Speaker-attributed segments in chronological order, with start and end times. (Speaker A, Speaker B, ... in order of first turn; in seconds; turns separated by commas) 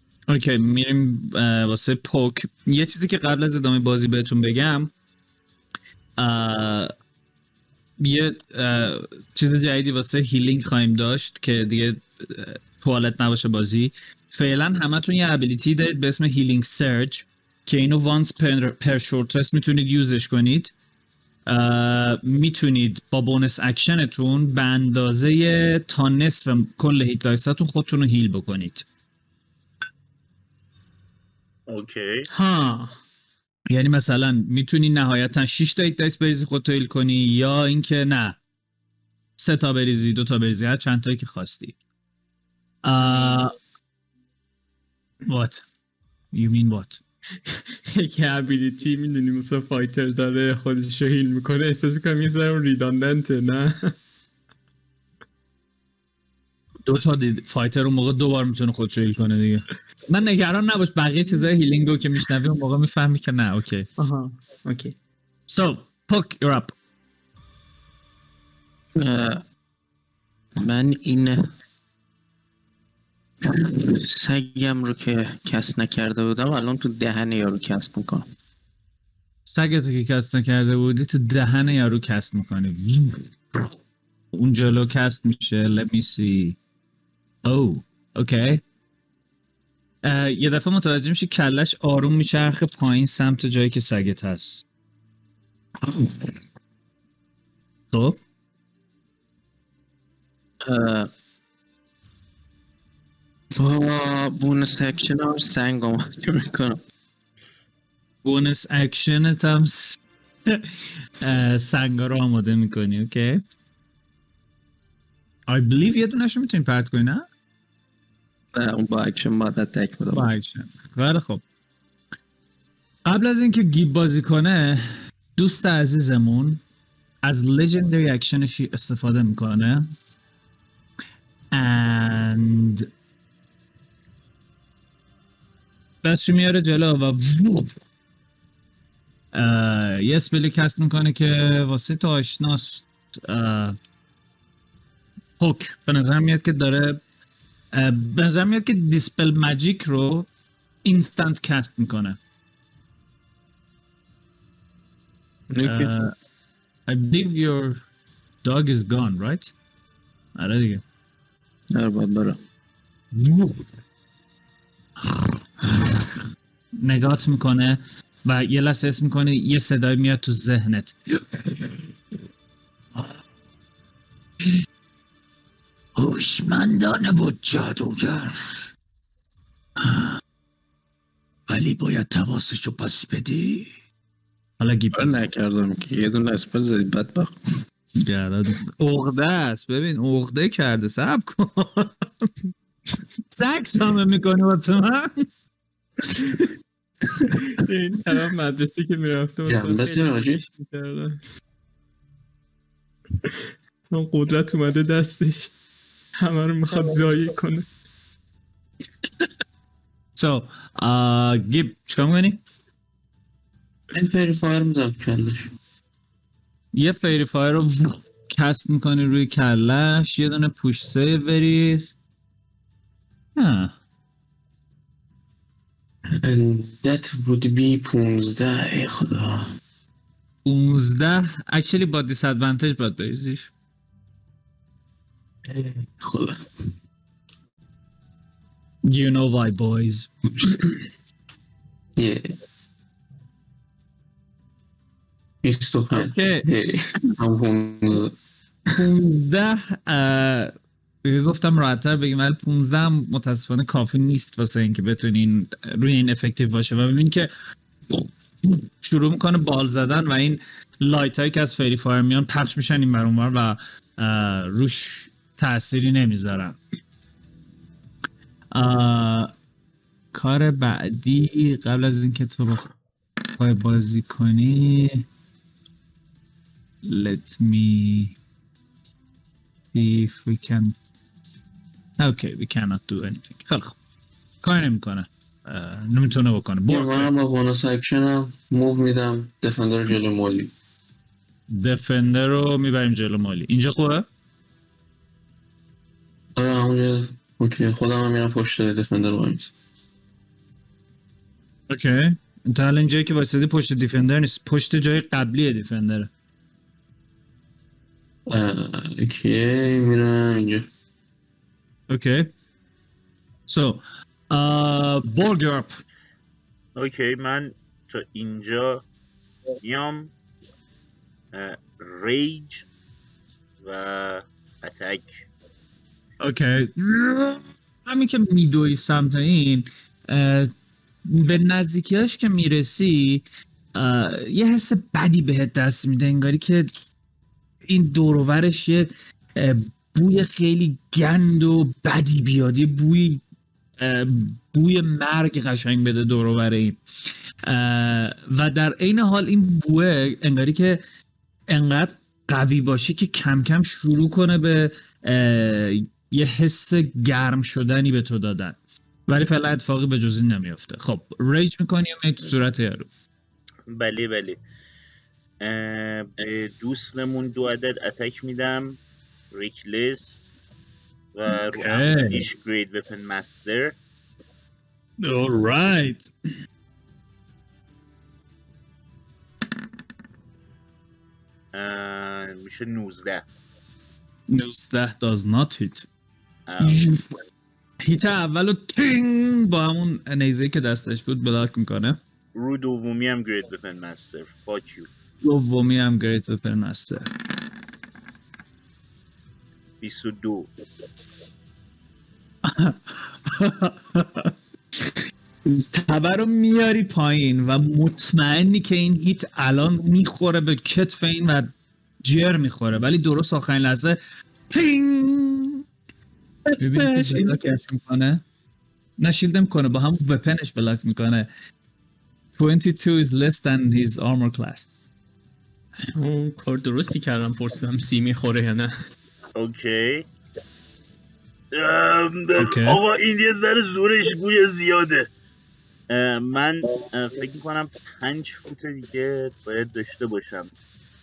Speaker A: 0.3-4.9, Speaker A: 6.2-6.9, Speaker A: 8.0-20.7, Speaker A: 21.5-28.9, Speaker B: 31.7-32.3, Speaker C: 32.3-33.0, Speaker A: 33.7-38.4, Speaker A: 39.4-41.8, Speaker A: 42.8-43.5, Speaker C: 43.0-43.5, Speaker A: 45.3-45.6, Speaker A: 46.3-47.0, Speaker C: 47.5-53.9, Speaker A: 56.9-63.9, Speaker C: 64.0-65.0, Speaker A: 65.5-66.7, Speaker D: 69.0-69.4, Speaker D: 70.6-71.5, Speaker D: 73.4-78.3, Speaker A: 79.5-83.6, Speaker A: 84.3-86.6, Speaker A: 87.5-88.6, Speaker A: 90.0-94.6, Speaker A: 95.8-96.3, Speaker A: 97.9-98.2, Speaker D: 100.7-101.1, Speaker D: 103.5-106.8, Speaker A: 108.2-113.4, Speaker A: 115.5-117.3, Speaker D: 118.5-120.3, Speaker A: 120.1-121.4, Speaker A: 123.1-126.6, Speaker A: 127.2-129.9, Speaker A: 131.5-132.9, Speaker A: 136.0-137.8, Speaker A: 139.3-143.8, Speaker A: 145.4-147.0, Speaker A: 147.7-150.3, Speaker A: 150.8-152.2, Speaker D: 155.5-155.9, Speaker A: 155.6-156.1, Speaker A: 156.9-157.8, Speaker A: 158.4-159.5, Speaker A: 160.4-160.8, Speaker D: 161.7-162.4, Speaker A: 163.1-163.7, Speaker A: 165.0-166.2, Speaker A: 166.8-171.9, Speaker A: 176.0-178.5, Speaker A: 179.8-180.2, Speaker A: 181.5-183.7, Speaker A: 184.6-185.2, Speaker D: 184.9-187.3, Speaker A: 188.0-192.3, Speaker A: 193.3-195.3, Speaker C: 197.3-201.2, Speaker E: 199.5-200.4, Speaker C: 203.9-205.5, Speaker C: 206.2-207.7, Speaker A: 210.2-212.4, Speaker E: 213.9-215.5, Speaker A: 216.7-221.9, Speaker A: 223.4-223.8, Speaker E: 226.2-229.5, Speaker A: 230.4-233.5, Speaker E: 235.5-236.5, Speaker A: 238.8-240.1, Speaker E: 242.0-242.3, Speaker E: 245.4-248.2, Speaker A: 245.9-246.5, Speaker A: 248.8-250.5, Speaker A: 251.0-257.3, Speaker A: 257.9-266.6, Speaker A: 268.5-269.3, Speaker A: 270.1-272.7, Speaker A: 273.4-275.1, Speaker A: 276.8-278.2, Speaker A: 279.7-280.8, Speaker A: 282.0-283.8, Speaker A: 284.4-287.1, Speaker E: 286.7-290.5, Speaker A: 291.5-294.1, Speaker E: 296.4-299.5, Speaker A: 301.7-306.1, Speaker E: 308.3-310.7, Speaker A: 311.9-312.3, Speaker A: 313.5-315.8, Speaker B: 316.8-318.8, Speaker B: 319.6-320.1, Speaker B: 321.3-322.7, Speaker B: 323.6-325.2, Speaker A: 326.2-330.5, Speaker A: 331.0-336.7, Speaker A: 337.6-343.2, Speaker A: 343.8-346.8, Speaker A: 347.5-350.8, Speaker A: 351.5-362.9, Speaker B: 363.7-364.4, Speaker B: 365.4-368.8, Speaker B: 369.3-370.3, Speaker B: 371.1-373.8, Speaker A: 371.3-372.2, Speaker A: 375.0-376.1, Speaker B: 381.5-383.3, Speaker A: 384.3-385.9, Speaker B: 386.5-386.9, Speaker A: 386.6-387.2, Speaker A: 387.8-392.0, Speaker B: 392.4-394.9, Speaker A: 395.2-397.1, Speaker B: 399.8-400.5, Speaker A: 402.4-404.3, Speaker A: 405.5-411.5, Speaker A: 412.0-414.0, Speaker A: 414.5-415.6, Speaker A: 416.6-418.2, Speaker D: 416.8-417.5, Speaker A: 419.0-421.3, Speaker A: 422.4-424.7, Speaker C: 425.9-428.7, Speaker B: 429.4-430.1, Speaker B: 431.5-435.1, Speaker A: 432.4-432.8, Speaker B: 435.9-440.5